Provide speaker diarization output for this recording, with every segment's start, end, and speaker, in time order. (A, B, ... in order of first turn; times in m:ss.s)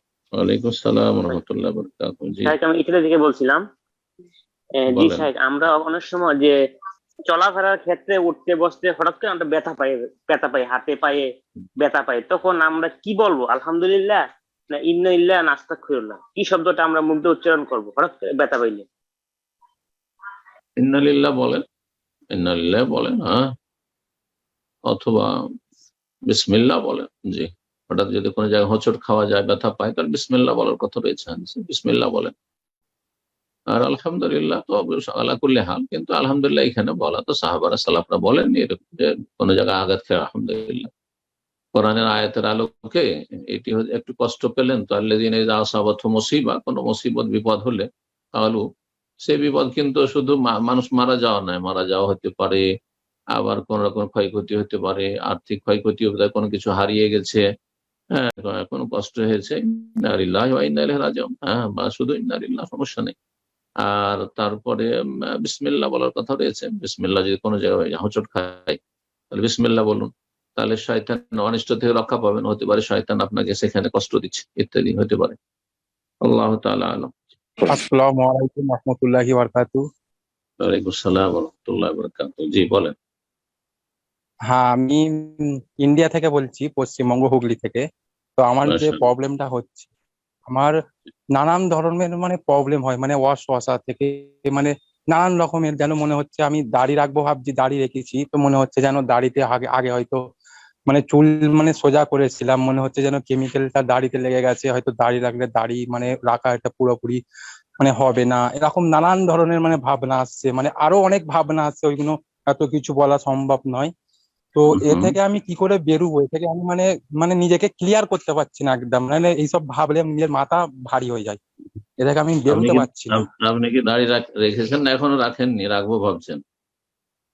0:00.4-0:02.5 A
0:02.5-0:03.6 B
0:04.8-0:06.5 B
0:04.9-0:05.3 A
0:07.3-0:11.2 B
0:11.8-0:14.2 B
0:14.7-0:18.9 B
0:20.8-0:21.6 A
0:22.3-0:23.4 A
0:24.9-0:25.3 A
0:26.3-0:32.3 A
0:33.7-0:40.9 A
0:41.8-0:47.8 A
0:48.4-0:48.6 A
0:49.2-0:52.6 A
0:53.4-0:57.4 A
0:58.2-1:03.1 A
1:03.8-1:08.8 A
1:09.3-1:15.4 A
1:16.2-1:17.7 A
1:17.7-1:19.8 C
1:20.6-1:22.9 A
1:24.5-1:27.8 C
1:28.4-1:29.9 C
1:28.7-1:29.1 A
1:31.4-1:40.2 C
1:40.9-1:47.2 C
1:47.8-1:53.9 C
1:54.6-2:01.4 C
1:54.7-1:55.2 A
2:02.0-2:03.2 C
2:02.5-2:06.4 A